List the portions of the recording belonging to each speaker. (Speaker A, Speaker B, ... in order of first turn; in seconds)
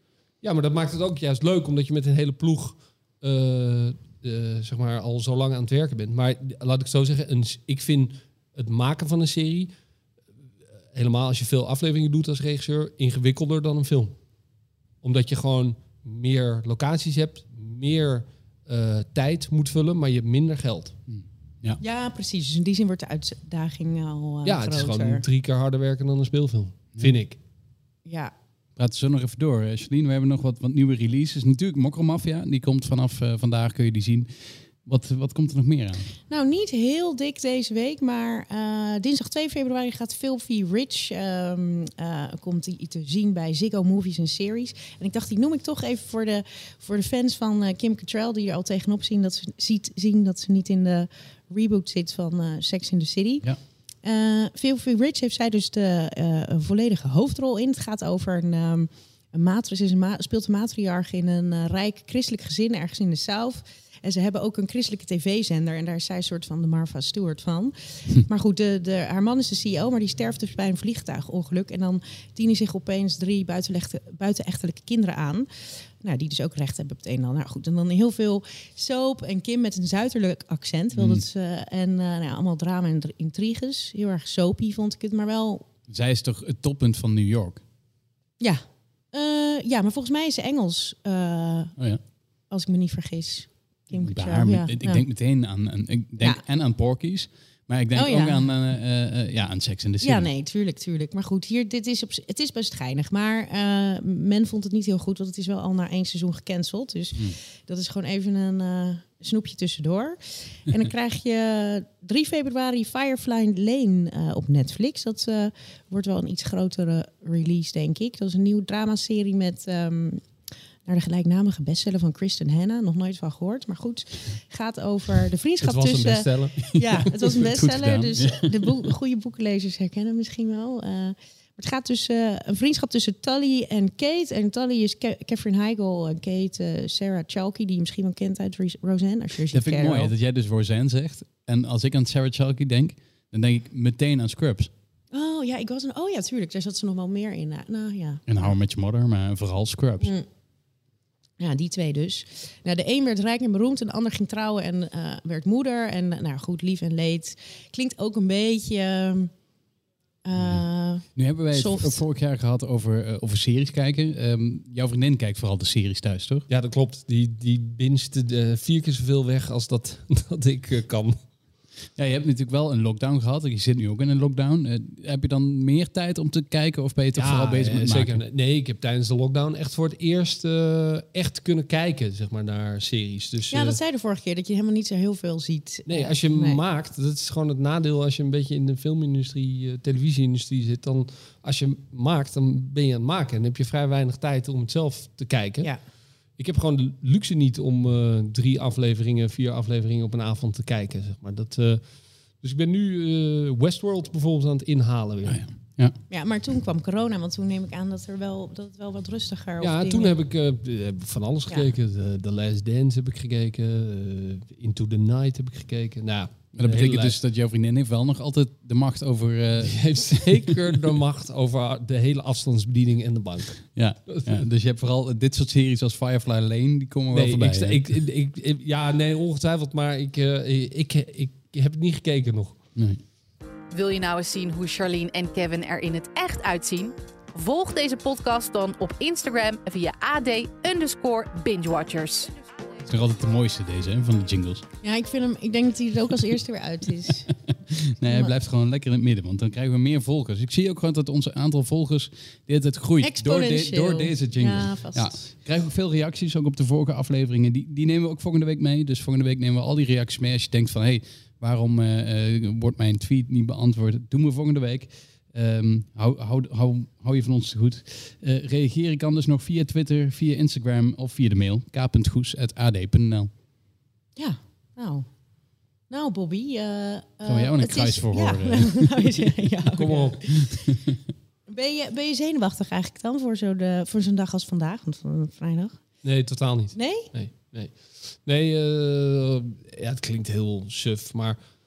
Speaker A: 0.4-9.7, 10.9-14.2, 15.0-21.0, 24.4-27.4, 125.6-126.8, 166.5-171.2, 177.2-183.8, 185.9-195.7, 196.4-201.8, 202.4-205.4, 209.6-217.2, 219.6-224.5, 227.1-232.6, 279.8-280.2, 286.0-291.4
Speaker B: 21.1-21.8, 28.8-36.1, 81.0-81.2, 85.9-87.6, 94.0-100.3, 127.4-128.8, 139.5-144.7, 148.3-150.1, 161.2-166.5, 172.0-178.2, 205.2-206.0, 216.6-220.6, 223.8-227.8, 232.8-233.0, 242.8-244.7, 247.5-273.3, 277.3-279.3, 280.4-280.6
Speaker C: 21.8-25.2, 28.1-28.3, 36.3-53.5, 54.0-85.7, 88.4-91.8, 92.5-95.0, 97.9-98.5, 100.0-120.3, 120.8-140.1, 145.1-148.5, 150.0-150.3, 151.4-159.3, 160.2-162.0, 183.5-186.6, 206.1-210.1, 244.8-247.3, 248.1-248.3, 253.0-255.3, 274.2-275.1, 275.9-280.6, 281.5-285.8, 286.8-287.1
Speaker D: 233.7-242.3